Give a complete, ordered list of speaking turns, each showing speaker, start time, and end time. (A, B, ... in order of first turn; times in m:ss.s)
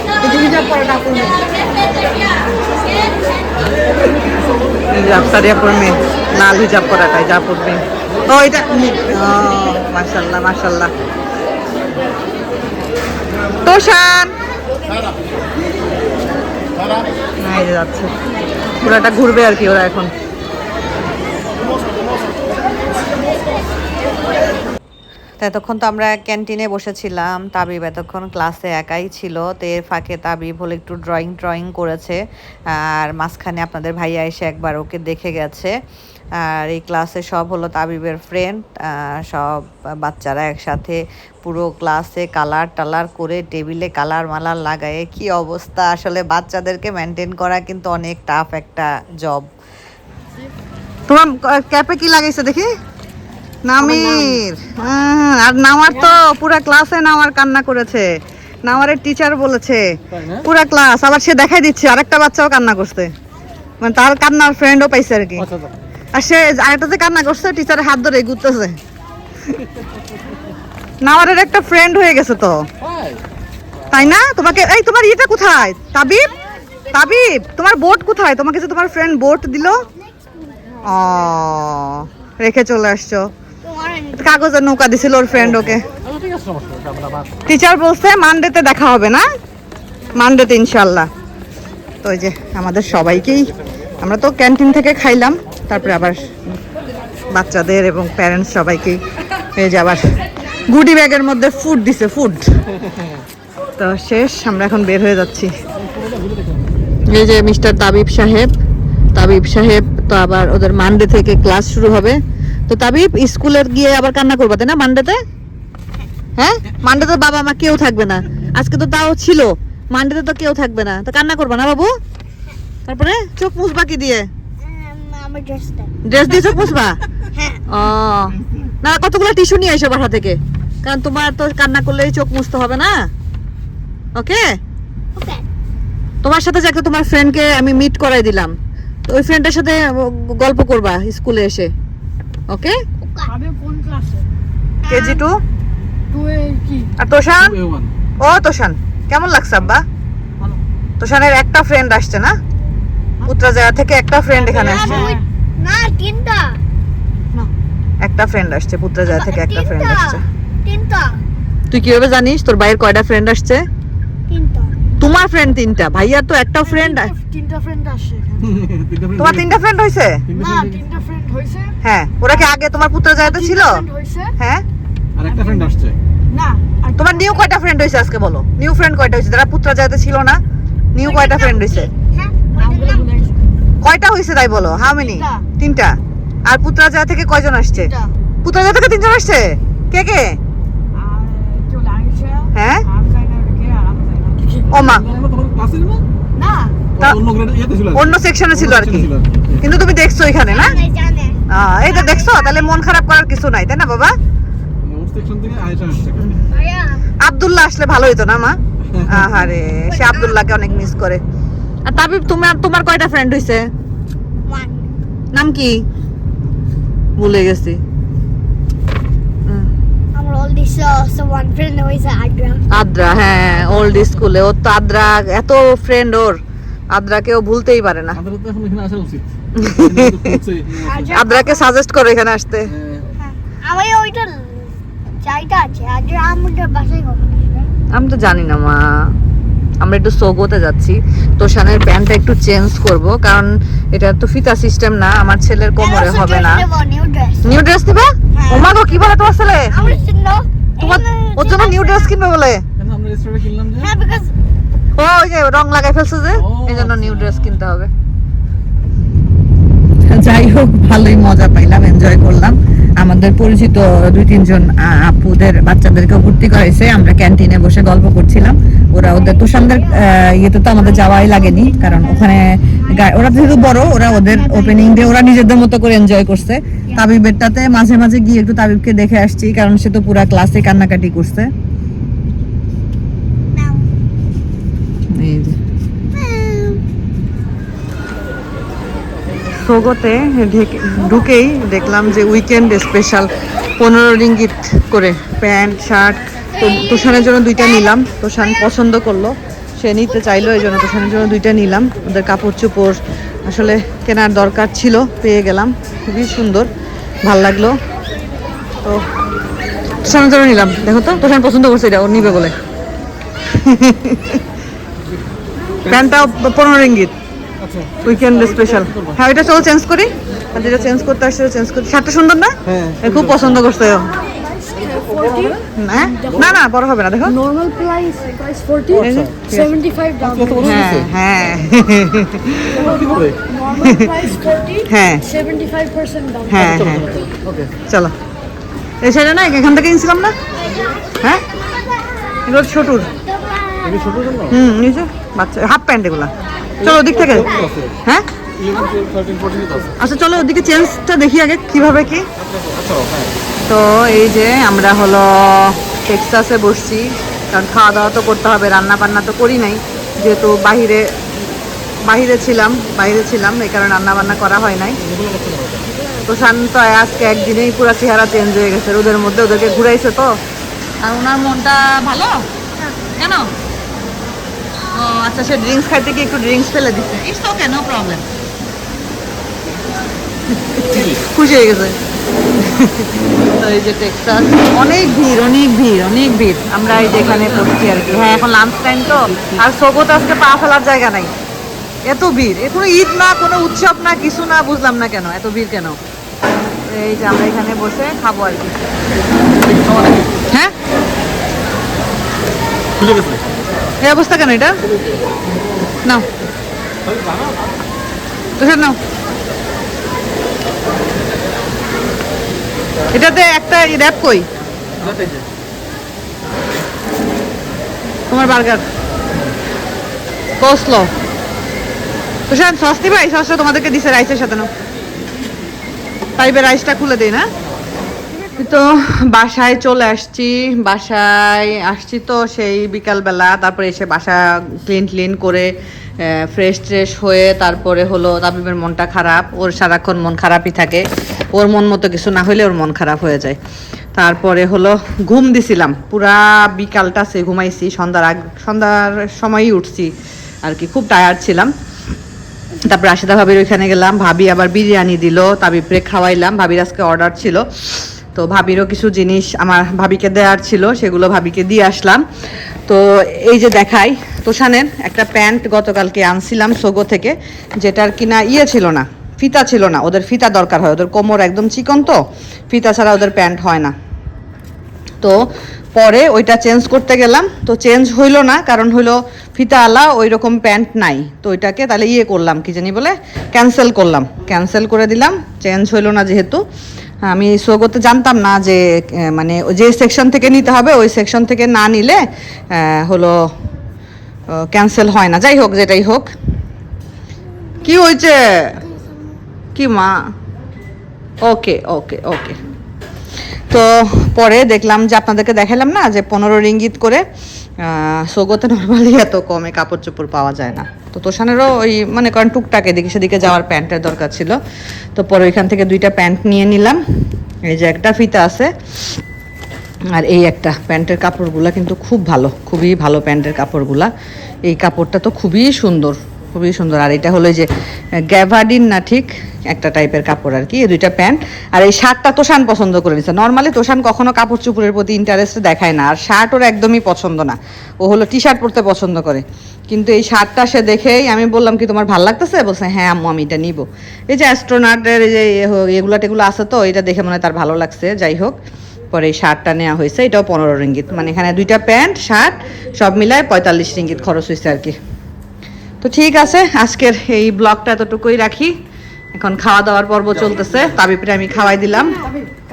0:00.2-0:01.4 A
0:04.9-0:10.9 A
0:13.6-0:14.4 A
0:17.4-0:18.1 A
0:18.8-0:20.1 A
0:25.4-0:32.2 A
0:32.7-0:35.7 A
0:36.4-0:49.5 A
0:51.1-0:52.7 A
0:53.6-1:03.1 A
1:03.8-1:05.5 A
1:06.1-1:08.8 A
1:11.0-1:12.7 A
1:13.9-1:16.3 A
1:16.9-1:19.9 A
1:19.8-1:21.1 B
1:20.8-1:23.3 A
1:23.6-1:24.4 B
1:24.2-1:25.9 A
1:26.2-1:27.2 C
1:27.4-1:29.2 A
1:30.1-1:31.1 A
1:32.0-1:36.5 A
1:37.3-1:39.0 A
1:39.5-1:42.4 A
1:43.8-1:45.6 A
1:47.1-1:48.5 A
1:49.1-1:55.2 A
1:56.4-2:02.0 A
2:02.8-2:04.3 A
2:04.6-2:06.0 B
2:06.0-2:07.0 A
2:07.3-2:07.6 B
2:07.7-2:13.1 A
2:14.1-2:14.6 A
2:15.2-2:15.4 B
2:16.2-2:18.5 A
2:19.1-2:21.7 A
2:22.5-2:22.8 A
2:23.0-2:23.4 B
2:23.4-2:24.3 D
2:24.8-2:25.2 B
2:24.9-2:25.4 A
2:26.1-2:26.9 D
2:27.0-2:27.6 A
2:28.2-2:29.8 A
2:31.0-2:32.4 A
2:33.3-2:35.1 A
2:34.4-2:36.6 B
2:34.6-2:35.2 D
2:38.0-2:40.2 A
2:39.1-2:41.2 B
2:41.7-2:43.6 A
2:44.3-2:44.8 B
2:45.0-2:47.1 A
2:47.1-2:48.4 D
2:48.7-2:49.1 C
2:49.2-2:50.2 A
2:50.4-2:50.7 C
2:50.8-2:51.7 D
2:51.8-2:53.8 A
2:53.9-2:54.2 D
2:54.4-2:54.6 A
2:55.2-2:55.9 C
2:55.3-2:55.7 D
2:56.3-2:56.9 D
2:57.0-3:00.4 A
3:00.9-3:01.9 A
3:01.0-3:03.2 B
3:02.8-3:03.2 D
3:03.8-3:05.9 A
3:06.5-3:07.9 A
3:08.4-3:10.4 A
3:11.0-3:14.6 D
3:12.5-3:12.8 A
3:14.7-3:15.1 A
3:15.2-3:16.0 C
3:16.4-3:16.8 D
3:17.0-3:17.2 A
3:17.3-3:17.9 C
3:17.9-3:20.8 A
3:20.5-3:22.7 B
3:21.5-3:24.1 A
3:24.8-3:26.2 C
3:26.4-3:27.1 B
3:27.2-3:31.2 A
3:29.9-3:30.4 B
3:31.8-3:33.7 A
3:34.4-3:35.0 B
3:35.3-3:35.8 A
3:37.2-3:37.8 A
3:40.1-3:42.6 B
3:42.7-3:46.4 A
3:46.9-3:48.2 A
3:48.3-3:49.2 C
3:49.5-3:50.4 A
3:50.3-3:50.9 C
3:50.8-3:51.7 B
3:51.1-3:52.7 A
3:53.2-3:57.7 B
3:57.9-3:59.1 A
3:59.8-4:06.6 A
4:05.8-4:07.5 B
4:07.4-4:09.8 A
4:08.3-4:08.9 B
4:09.7-4:12.1 B
4:10.8-4:12.6 A
4:12.8-4:13.8 C
4:13.7-4:14.3 B
4:15.0-4:17.9 A
4:20.0-4:41.5 A
4:29.1-4:30.2 B
4:30.8-4:35.3 B
4:36.8-4:37.1 B
4:43.5-4:43.9 B
4:45.1-4:45.6 A
4:46.1-4:46.8 B
4:49.5-5:06.7 A
5:07.2-5:07.8 A
5:10.0-5:12.5 A
5:13.5-5:14.4 A
5:15.8-5:17.1 A
5:17.6-5:18.0 C
5:18.0-5:24.1 A
5:24.7-5:25.6 E
5:25.8-5:27.4 A
5:27.5-5:28.8 E
5:28.9-5:29.8 A
5:30.3-5:30.7 C
5:30.5-5:34.2 A
5:33.0-5:33.4 C
5:34.8-5:35.3 A
5:35.4-5:36.4 E
5:36.4-5:37.2 A
5:37.9-5:38.1 A
5:39.0-5:40.3 A
5:41.5-5:42.4 B
5:42.4-5:43.1 A
5:43.2-5:44.4 B
5:44.5-5:48.2 A
5:47.5-5:47.7 B
5:48.8-5:49.9 C
5:50.0-5:52.3 A
5:52.9-5:53.2 C
5:53.7-6:01.1 A
6:02.0-6:05.0 A
6:05.2-6:05.7 C
6:06.2-6:10.4 A
6:11.0-6:12.5 A
6:13.2-6:13.5 A
6:14.9-6:18.2 A
6:20.6-6:22.0 A
6:22.6-6:31.3 A
6:32.0-6:36.0 A
6:36.9-6:38.8 A
6:39.7-6:40.3 C
6:43.0-6:43.4 C
6:44.0-6:44.8 A
6:48.6-6:49.0 A
6:53.1-6:54.5 A
6:55.1-6:55.4 C
6:58.3-6:58.8 A
7:00.6-7:01.1 A
7:02.5-7:04.7 A
7:06.4-7:07.5 A
7:08.6-7:23.6 A
7:24.1-7:30.1 A
7:30.6-7:31.7 A
7:32.8-7:42.2 A
7:42.9-7:53.9 A
7:55.2-8:06.6 A
8:07.2-8:13.5 A
8:14.5-8:16.3 A
8:17.8-8:18.8 A
8:19.7-8:20.1 A
8:21.4-8:22.6 A
8:23.7-8:27.2 A
8:27.8-8:34.6 A
8:35.1-8:37.0 A
8:37.7-8:38.7 A
8:40.1-8:44.1 A
8:44.6-8:47.7 A
8:48.3-9:08.6 A
9:09.1-9:15.0 A
9:16.0-9:18.8 A
9:19.3-9:22.3 A